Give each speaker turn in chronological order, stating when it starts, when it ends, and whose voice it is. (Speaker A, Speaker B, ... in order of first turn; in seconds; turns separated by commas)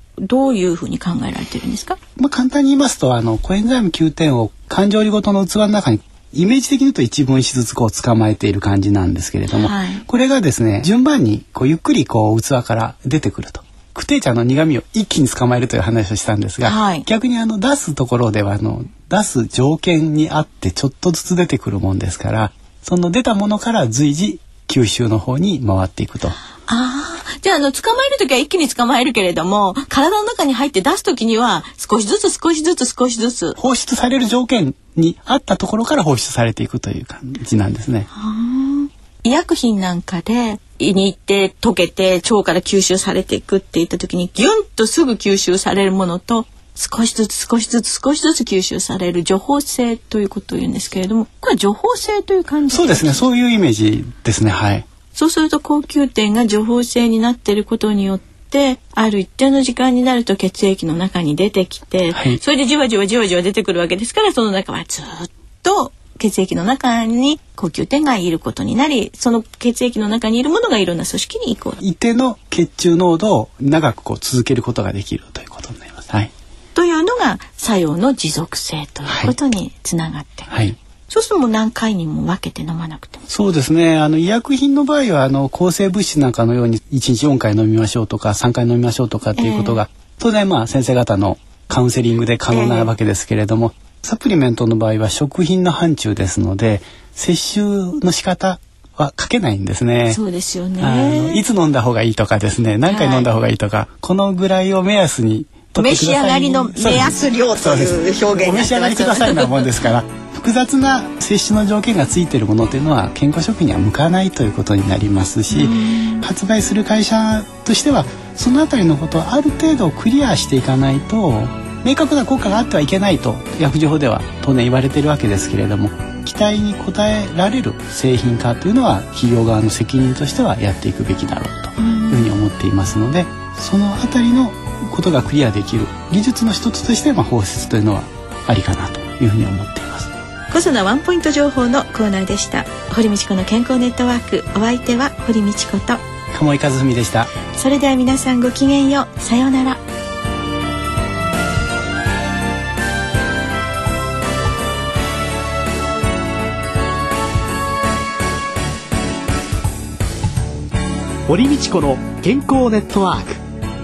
Speaker A: 0.2-2.0, Speaker B: 2.2-26.4, Speaker A: 9.5-10.0, Speaker A: 16.6-17.1, Speaker A: 26.6-33.6, Speaker B: 33.6-38.1, Speaker A: 38.1-53.3, Speaker B: 52.7-54.9, Speaker A: 55.1-71.8, Speaker B: 62.1-62.4, Speaker B: 71.8-76.3, Speaker A: 76.8-80.6, Speaker B: 79.1-79.3, Speaker B: 80.5-80.8, Speaker A: 81.1-83.2, Speaker B: 83.3-100.2, Speaker A: 89.3-89.8, Speaker A: 92.5-92.9, Speaker A: 100.1-101.5, Speaker B: 100.8-140.1, Speaker A: 102.8-103.3, Speaker A: 105.8-109.7, Speaker A: 115.5-116.3, Speaker A: 131.8-132.3, Speaker A: 140.5-146.0, Speaker B: 146.3-147.3, Speaker A: 147.5-149.8, Speaker C: 161.3-163.4